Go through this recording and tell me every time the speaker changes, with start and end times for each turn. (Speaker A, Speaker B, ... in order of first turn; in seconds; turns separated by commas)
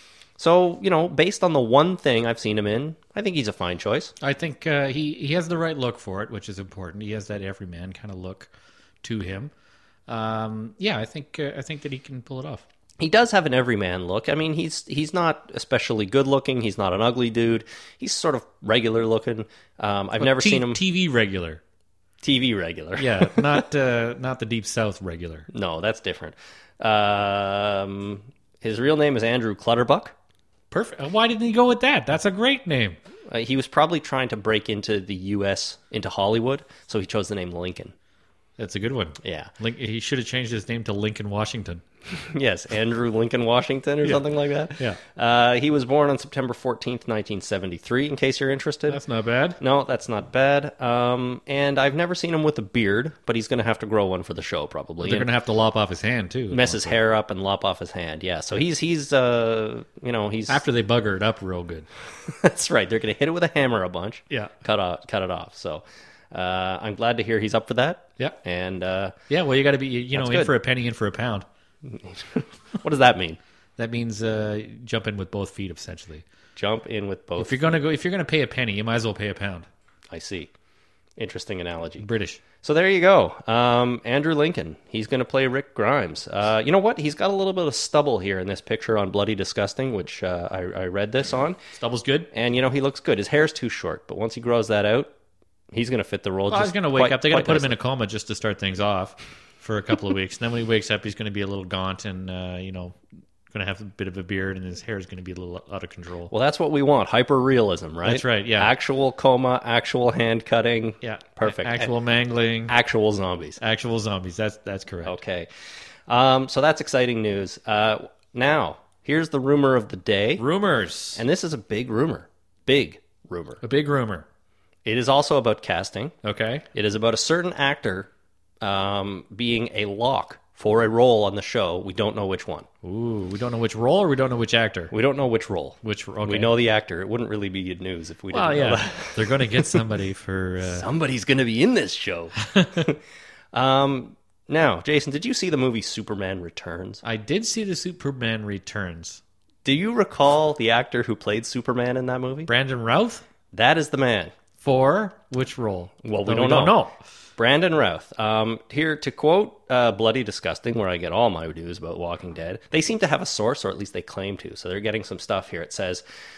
Speaker A: 0.4-4.1, Speaker B: 4.2-8.5, Speaker B: 9.0-9.5, Speaker B: 10.1-12.7, Speaker A: 13.0-20.8, Speaker B: 20.2-21.6, Speaker A: 22.2-23.6, Speaker B: 23.0-25.5, Speaker A: 25.5-30.1, Speaker B: 30.7-33.0, Speaker A: 33.3-37.9, Speaker B: 38.6-41.8, Speaker A: 39.2-39.5, Speaker A: 42.1-49.0, Speaker B: 48.9-49.6, Speaker A: 49.6-55.3, Speaker B: 55.0-57.0, Speaker A: 56.5-60.6, Speaker B: 60.5-61.9, Speaker A: 62.2-69.2, Speaker B: 69.3-71.5, Speaker A: 70.1-70.5, Speaker A: 71.8-73.4, Speaker B: 73.8-76.2, Speaker A: 76.5-77.6, Speaker B: 77.4-79.7, Speaker A: 80.1-80.5, Speaker A: 81.2-82.0, Speaker B: 82.0-82.4, Speaker A: 82.6-91.6, Speaker B: 91.7-92.3, Speaker A: 92.3-95.1, Speaker A: 95.7-97.7, Speaker B: 96.5-103.0, Speaker B: 103.5-106.3, Speaker A: 106.3-111.9, Speaker B: 108.0-108.7, Speaker B: 111.0-112.7, Speaker A: 112.7-113.6, Speaker B: 113.6-115.2, Speaker A: 115.0-115.5, Speaker A: 116.1-120.4, Speaker B: 120.4-121.2, Speaker A: 121.1-123.6, Speaker B: 123.6-124.2, Speaker A: 124.8-126.1, Speaker B: 126.2-126.7, Speaker A: 126.7-128.1, Speaker A: 128.6-132.7, Speaker B: 132.8-134.9, Speaker A: 134.9-139.8, Speaker B: 135.8-136.5, Speaker B: 138.3-140.9, Speaker A: 140.6-143.0, Speaker B: 142.4-142.9, Speaker A: 143.5-147.0, Speaker B: 147.0-149.2, Speaker A: 149.6-152.5, Speaker B: 152.5-153.2, Speaker A: 153.5-154.3, Speaker B: 154.6-157.0, Speaker A: 156.0-156.7, Speaker A: 157.4-166.0